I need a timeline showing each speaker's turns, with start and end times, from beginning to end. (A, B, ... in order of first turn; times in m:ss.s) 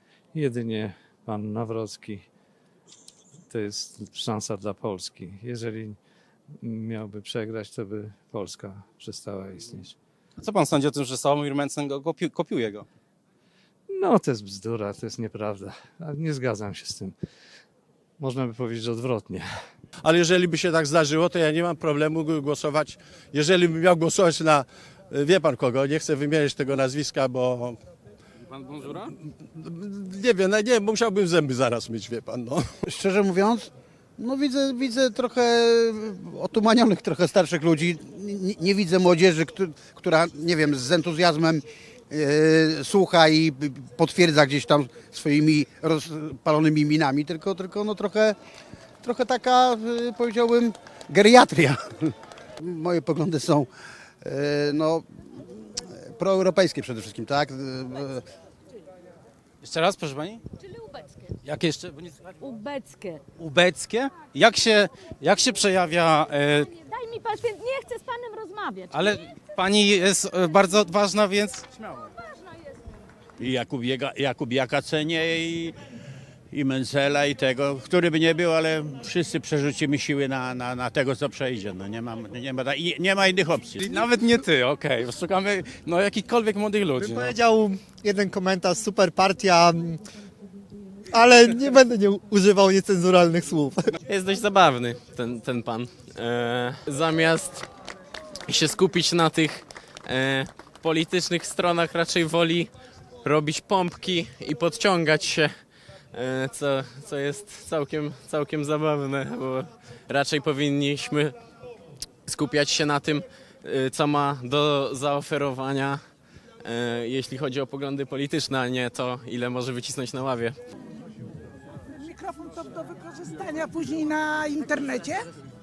0:00.3-0:02.2 A
0:03.5-0:06.0 A
0:06.6-0:10.0 A
0:10.4-0:12.8 B
0:13.9-0:17.1 A
0:18.2-0:19.5 A
0:20.0-0:27.8 C
0:28.5-0:29.1 B
0:29.3-0:32.7 C
0:32.9-0:48.4 D
0:49.0-0:53.7 D
0:54.2-0:58.2 D
0:59.6-1:00.4 B
1:01.4-1:02.3 B
1:02.4-1:03.2 E
1:03.4-1:06.7 B
1:06.7-1:08.9 E
1:08.9-1:12.1 B
1:13.4-1:15.8 F
1:16.5-1:24.0 F
1:23.8-1:27.3 B
1:27.0-1:30.0 G
1:31.1-1:33.8 G
1:34.1-1:37.6 H
1:38.5-1:42.7 H
1:43.2-1:45.5 H
1:46.1-1:51.4 H
1:52.2-1:56.0 H
1:56.6-2:00.6 H
2:02.0-2:05.3 I